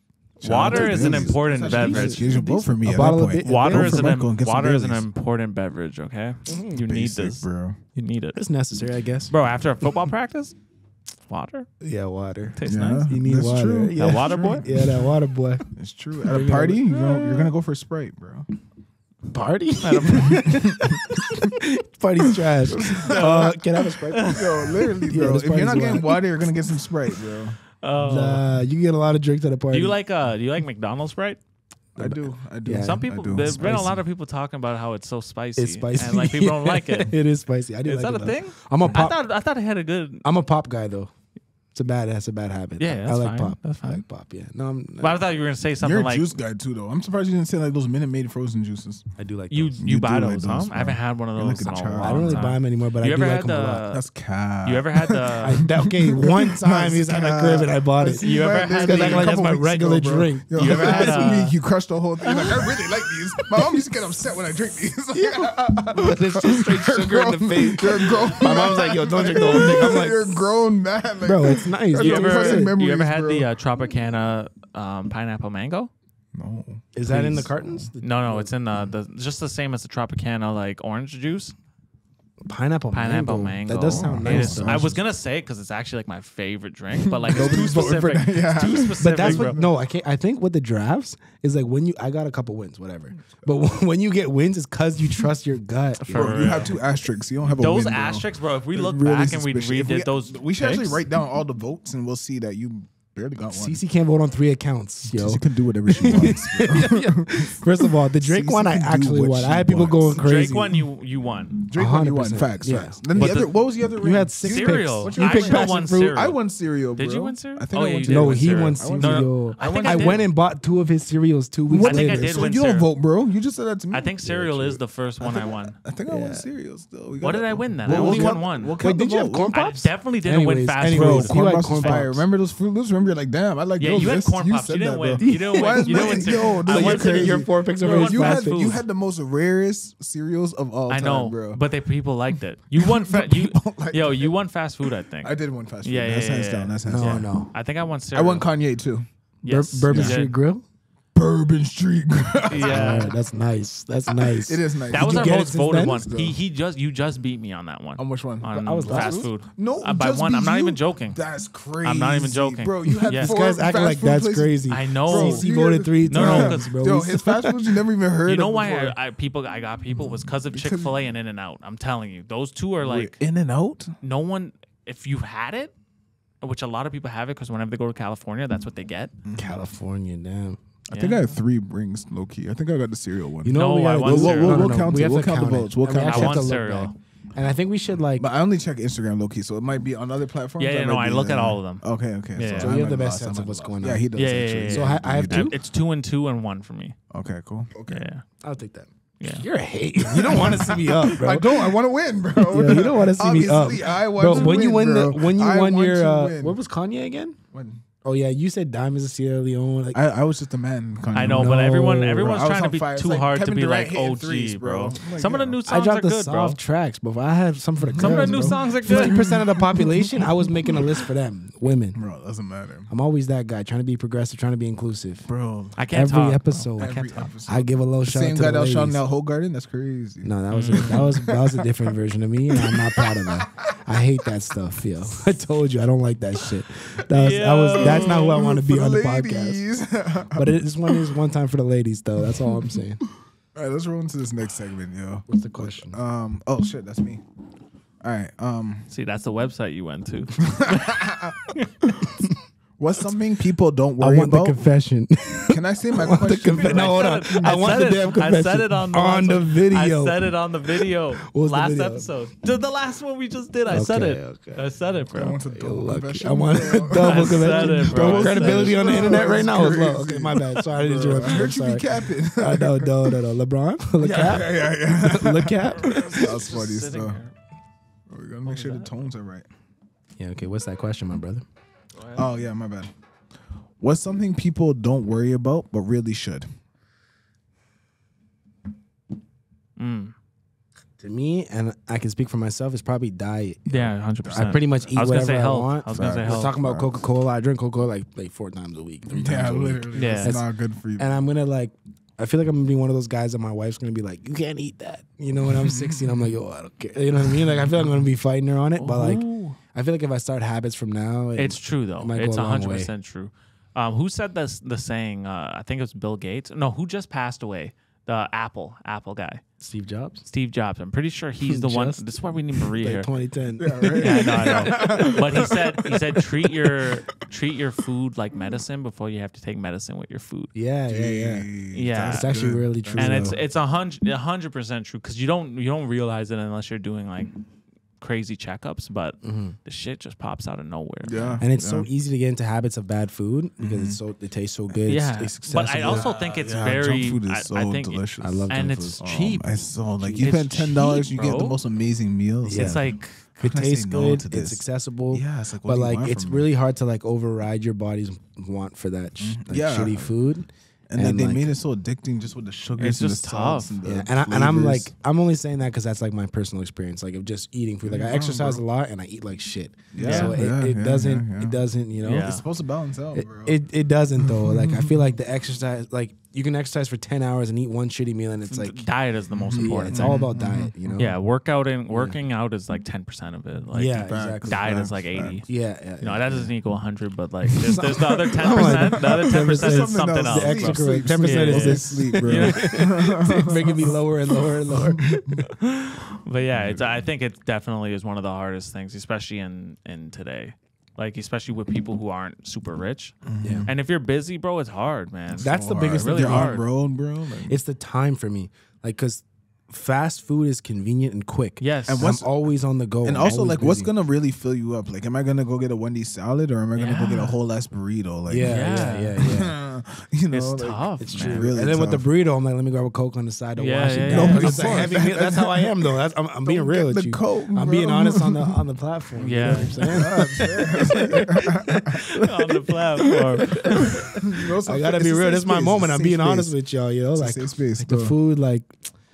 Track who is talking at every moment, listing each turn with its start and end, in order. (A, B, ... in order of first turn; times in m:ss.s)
0:00.4-0:02.4 A
0:00.4-0:05.0 B
0:00.6-0:04.2 C
0:03.4-0:08.4 A
0:06.5-0:06.8 C
0:06.9-0:07.8 B
0:08.3-0:09.3 C
0:09.3-0:10.6 A
0:11.3-0:11.7 A
0:11.8-0:15.7 C
0:12.6-0:13.1 A
0:12.7-0:15.0 B
0:14.0-0:14.7 A
0:15.7-0:18.5 B
0:16.2-0:17.2 C
0:16.9-0:17.5 A
0:19.3-0:24.6 C
0:19.8-0:20.6 A
0:20.8-0:21.5 B
0:22.4-0:23.6 B
0:23.1-0:23.5 A
0:24.1-0:24.9 A
0:24.2-0:27.6 B
0:25.1-0:26.2 C
0:27.8-0:28.4 A
0:28.0-0:30.0 C
0:29.7-0:31.4 A
0:32.0-0:34.0 C
0:32.0-0:33.9 B
0:32.7-0:37.2 A
0:35.6-0:39.2 C
0:37.8-0:40.3 A
0:40.2-0:41.1 C
0:41.7-0:45.2 C
0:42.8-0:44.0 A
0:45.0-0:46.3 A
0:45.8-0:49.1 B
0:49.2-0:49.8 C
0:49.5-0:54.0 A
0:49.8-0:52.5 B
0:52.0-0:53.8 C
0:53.9-1:13.5 B
0:54.6-0:55.6 A
0:55.4-1:01.4 C
0:58.2-0:59.4 A
1:00.5-1:01.5 A
1:05.1-1:10.4 C
1:11.2-1:12.7 C
1:12.0-1:15.9 A
1:16.3-1:17.9 B
1:16.9-1:18.5 C
1:17.1-1:17.4 A
1:18.0-1:21.6 A
1:22.5-1:24.9 C
1:22.9-1:29.6 A
1:23.9-1:25.0 B
1:27.0-1:29.7 B
1:27.4-1:27.9 C
1:29.0-1:36.7 C
1:36.0-1:36.8 A
1:36.1-1:43.8 B
1:37.6-1:41.0 A
1:43.5-1:50.8 C
1:45.0-1:50.3 B
1:50.1-1:51.6 A
1:51.6-2:00.2 B
1:51.7-1:56.1 C
1:53.1-1:53.5 A
1:54.4-1:56.4 A
1:56.9-2:00.2 A
1:58.1-2:02.5 C
2:01.7-2:09.5 B
2:01.8-2:02.9 A
2:03.9-2:05.8 A
2:06.1-2:06.5 C
2:07.2-2:08.8 A
2:07.9-2:12.2 C
2:09.5-2:12.1 A
2:10.9-2:21.6 B
2:13.8-2:18.8 A
2:15.2-2:18.8 C
2:20.9-2:28.5 A
2:22.8-2:24.3 B
2:25.2-2:27.3 B
2:26.9-2:27.5 C
2:28.1-2:29.1 B
2:29.4-2:30.3 A
2:29.5-2:30.6 C
2:29.9-2:30.2 B
2:31.1-2:33.2 B
2:32.5-2:33.1 A
2:32.6-2:36.0 C
2:34.1-2:36.4 B
2:34.9-2:41.2 A
2:38.0-2:49.0 B
2:38.5-2:39.3 C
2:41.8-2:43.4 A
2:42.8-2:47.7 C
2:44.7-2:45.5 A
2:46.1-2:46.7 A
2:48.3-2:53.2 A
2:49.9-2:51.0 B
2:52.8-2:53.9 B
2:54.0-2:55.7 A
2:56.4-2:59.1 A
2:59.2-2:59.6 B
2:59.3-3:00.6 C
3:00.9-3:01.4 A
3:00.9-3:06.5 B
3:03.4-3:08.3 C
3:03.5-3:04.8 A
3:06.0-3:06.9 A
3:08.2-3:15.5 B
3:10.6-3:12.8 A
3:12.6-3:14.1 C
3:14.2-3:17.0 A
3:14.7-3:15.6 C
3:17.1-3:18.1 B
3:17.9-3:18.2 A
3:18.4-3:21.7 C
3:19.2-3:19.5 A
3:20.0-3:26.6 B
3:22.4-3:27.4 C
3:24.3-3:24.6 A
3:27.5-3:27.8 B
3:28.0-3:30.0 C
3:29.9-3:31.7 B
3:31.1-3:36.6 A
3:31.2-3:32.4 C
3:32.2-3:35.6 B
3:35.7-3:42.0 C
3:37.8-3:40.9 B
3:38.0-3:39.3 A
3:42.0-3:42.9 B
3:42.9-3:45.3 C
3:45.3-3:45.8 B
3:45.8-3:47.3 A
3:45.9-3:47.0 C
3:46.8-3:52.0 B
3:47.5-3:49.0 C
3:50.2-3:59.6 C
3:50.5-3:51.0 A
3:52.6-3:53.5 B
3:57.1-3:58.4 A
3:57.7-4:01.1 B
4:00.4-4:03.0 C
4:02.3-4:02.8 B
4:03.5-4:07.2 B
4:05.3-4:06.0 C
4:08.0-4:08.9 B
4:08.9-4:11.7 A
4:10.5-4:12.2 B
4:12.8-4:14.6 B
4:14.0-4:20.3 C
4:15.5-4:18.0 B
4:16.6-4:25.4 A
4:21.3-4:22.1 C
4:23.7-4:24.7 C
4:25.1-4:33.2 B
4:25.3-4:36.4 C
4:27.0-4:29.0 A
4:34.0-4:34.4 A
4:34.0-4:37.2 B
4:35.8-4:37.3 A
4:38.1-4:39.5 B
4:38.4-4:38.9 A
4:40.2-4:41.4 C
4:41.9-4:42.4 A
4:42.2-4:42.9 B
4:43.8-4:46.5 B
4:49.8-4:50.1 A
4:51.0-5:00.4 C
4:53.7-4:56.6 A
4:54.2-4:54.7 B
4:55.9-4:57.0 B
4:59.1-5:01.2 B
4:59.9-5:00.4 A
5:01.0-5:12.9 C
5:05.5-5:06.4 B
5:08.8-5:09.6 A
5:11.4-5:19.4 A
5:19.6-5:20.2 C
5:20.2-5:23.1 A
5:21.4-5:22.0 C
5:22.7-5:25.1 C
5:23.6-5:26.8 B
5:24.0-5:30.5 A
5:30.5-5:33.4 C
5:30.9-5:33.4 B
5:31.7-5:37.4 A
5:38.0-5:41.4 A
5:39.2-5:39.6 C
5:41.0-5:41.9 B
5:41.4-5:46.1 C
5:43.6-5:44.0 B
5:44.9-5:51.6 A
5:45.8-5:56.5 B
5:48.2-5:49.0 C
5:50.0-5:50.3 C
5:52.4-5:52.9 C
5:52.5-5:53.4 A
5:53.4-6:01.5 C
5:59.2-6:00.2 B
6:00.9-6:04.9 B
6:02.8-6:03.8 A
6:03.8-6:12.3 C
6:07.8-6:08.6 B
6:09.9-6:13.6 B
6:10.0-6:10.4 A
6:12.0-6:12.4 A
6:13.1-6:18.9 C
6:14.2-6:15.2 B
6:18.4-6:20.3 A
6:19.3-6:21.0 B
6:19.6-6:21.2 C
6:21.0-6:32.9 A
6:21.9-6:22.2 C
6:23.7-6:24.7 C
6:24.0-6:25.4 B
6:25.5-6:26.5 C
6:27.6-6:35.5 B
6:27.6-6:35.4 C
6:35.6-6:46.7 A
6:36.5-6:37.1 B
6:43.2-6:43.7 B
6:43.4-6:43.7 C
6:45.3-6:47.6 B
6:45.4-6:46.6 C
6:47.5-6:53.9 C
6:51.6-6:52.1 A
6:51.9-6:52.3 B
6:53.0-6:58.6 B
6:56.8-6:57.4 A
6:58.3-6:59.6 C
6:58.4-6:59.2 A
6:59.2-7:02.1 B
7:00.3-7:01.5 A
7:01.0-7:18.8 C
7:03.6-7:05.0 A
7:04.0-7:08.6 B
7:09.2-7:09.9 A
7:09.4-7:11.8 B
7:12.2-7:14.1 A
7:14.2-7:16.6 B
7:17.2-7:18.2 B